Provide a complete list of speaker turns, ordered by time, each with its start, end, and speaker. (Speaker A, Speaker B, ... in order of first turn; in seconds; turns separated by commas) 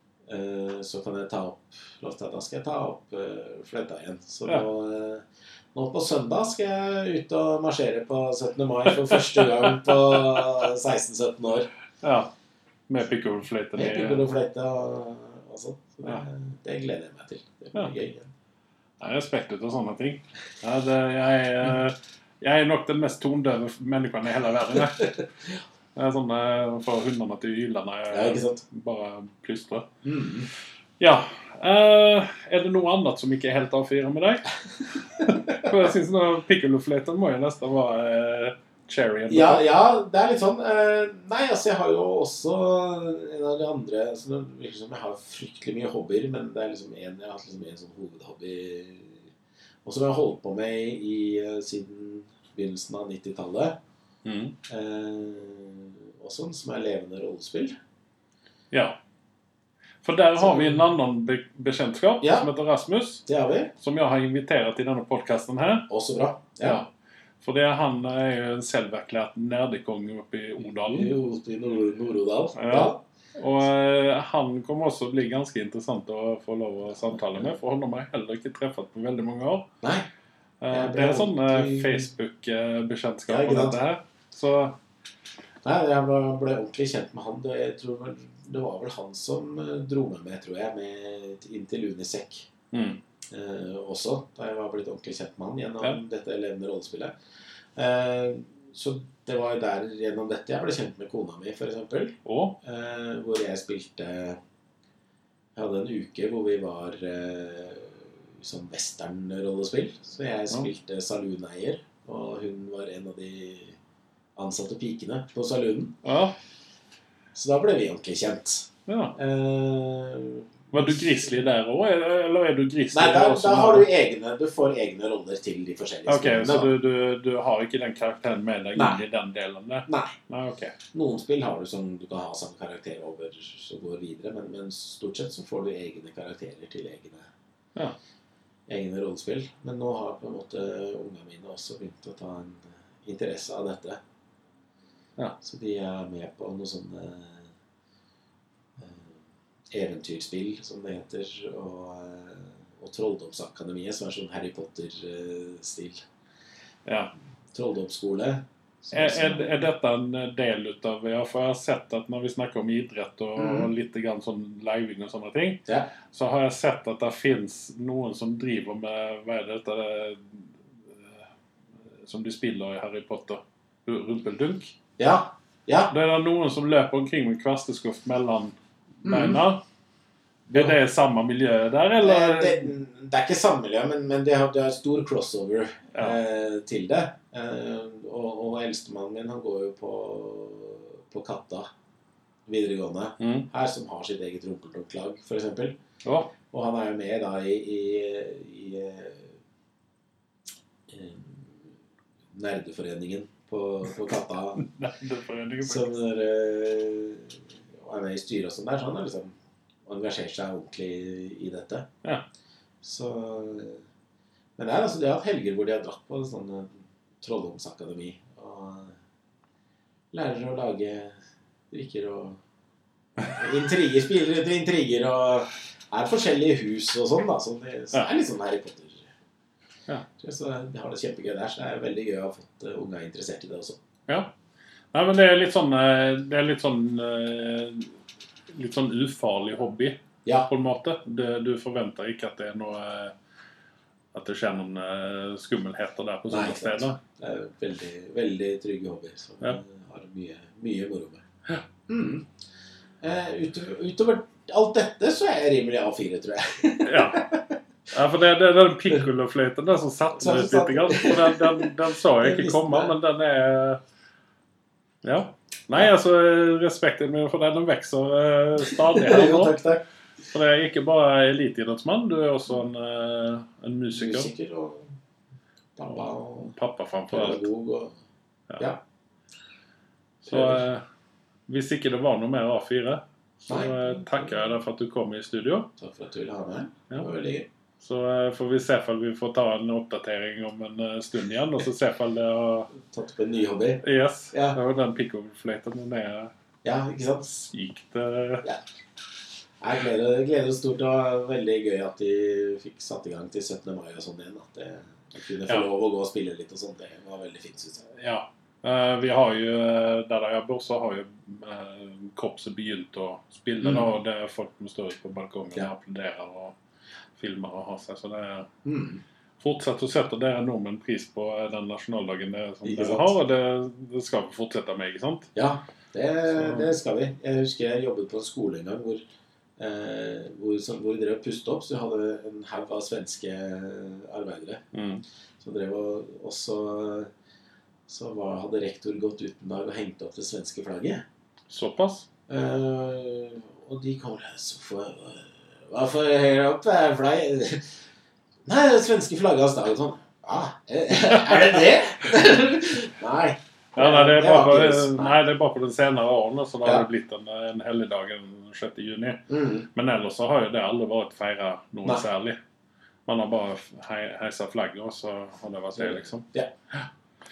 Speaker A: 0.3-11.7, Speaker B: 8.9-10.4, Speaker B: 12.0-12.3, Speaker B: 12.9-14.3, Speaker A: 13.8-18.3, Speaker B: 19.0-25.2, Speaker B: 25.9-29.9, Speaker A: 28.1-28.6, Speaker A: 30.0-30.5, Speaker B: 31.0-39.7, Speaker A: 39.3-49.3, Speaker A: 49.8-53.8, Speaker B: 54.2-54.6, Speaker A: 54.7-57.8, Speaker B: 58.7-59.0, Speaker B: 60.0-63.2, Speaker A: 60.4-60.9, Speaker A: 62.2-62.5, Speaker A: 63.3-63.7, Speaker B: 63.8-65.9, Speaker A: 65.9-66.8, Speaker B: 66.6-66.9, Speaker B: 67.4-71.1, Speaker A: 70.6-73.0, Speaker B: 72.6-79.7, Speaker A: 76.9-77.6, Speaker A: 79.8-80.1, Speaker B: 80.6-84.8, Speaker A: 80.7-82.1, Speaker A: 83.3-83.8, Speaker A: 85.6-92.5, Speaker B: 92.7-93.0, Speaker A: 93.3-97.1, Speaker A: 97.8-104.4, Speaker B: 102.2-102.6, Speaker A: 105.5-113.8, Speaker A: 114.4-116.0, Speaker B: 116.0-116.4, Speaker A: 117.3-121.3, Speaker B: 118.9-119.2, Speaker B: 120.7-123.9, Speaker A: 122.9-126.7, Speaker B: 126.1-130.8, Speaker A: 128.8-129.0, Speaker A: 129.9-130.2, Speaker A: 130.9-137.3, Speaker A: 138.7-144.0, Speaker A: 145.4-147.5, Speaker A: 148.8-156.0, Speaker B: 156.9-157.1, Speaker A: 157.5-159.7, Speaker B: 158.9-171.2, Speaker A: 163.4-163.7, Speaker B: 172.0-174.8, Speaker A: 175.0-175.9, Speaker B: 175.9-179.6, Speaker A: 179.0-179.4, Speaker A: 180.5-180.8, Speaker B: 180.5-182.7, Speaker A: 182.0-191.7, Speaker B: 185.9-186.2, Speaker A: 192.5-195.8, Speaker B: 193.2-193.5, Speaker B: 196.0-196.3, Speaker A: 196.5-199.4, Speaker A: 200.9-201.7, Speaker A: 202.3-204.7, Speaker B: 204.6-205.9, Speaker A: 205.6-209.3, Speaker A: 209.9-211.9, Speaker A: 212.8-213.8, Speaker A: 214.6-219.0, Speaker A: 220.1-222.4, Speaker A: 223.2-229.1, Speaker A: 230.2-233.8, Speaker B: 234.1-234.3, Speaker B: 234.9-237.9, Speaker B: 238.5-243.2, Speaker A: 240.2-240.5, Speaker B: 244.1-247.0, Speaker A: 246.3-251.2, Speaker A: 251.9-252.3, Speaker A: 253.0-257.6, Speaker B: 256.8-257.3, Speaker B: 257.9-263.8, Speaker A: 260.2-262.9, Speaker B: 265.0-269.6, Speaker A: 268.9-269.8, Speaker B: 270.3-274.3, Speaker A: 273.9-274.9, Speaker A: 275.8-276.6, Speaker B: 276.5-277.5, Speaker A: 277.1-278.0, Speaker B: 280.2-280.8, Speaker A: 280.3-280.6, Speaker B: 281.5-285.7, Speaker A: 283.5-284.3, Speaker A: 285.8-287.5, Speaker B: 287.8-292.7, Speaker A: 292.8-294.6, Speaker B: 293.8-296.3, Speaker A: 296.6-297.5, Speaker B: 297.5-298.5, Speaker A: 299.6-307.9, Speaker B: 307.9-316.6, Speaker A: 313.6-313.9, Speaker B: 317.2-318.5, Speaker A: 318.6-319.0, Speaker B: 319.4-325.3, Speaker A: 322.6-323.1, Speaker A: 325.4-329.1, Speaker B: 326.3-326.7, Speaker A: 329.6-334.6, Speaker B: 334.7-335.0, Speaker A: 335.4-337.1, Speaker A: 337.9-341.1, Speaker B: 341.5-342.1, Speaker A: 342.3-347.7, Speaker A: 348.5-355.2, Speaker B: 353.8-362.4, Speaker A: 359.3-359.7, Speaker B: 363.1-366.9, Speaker A: 365.8-366.5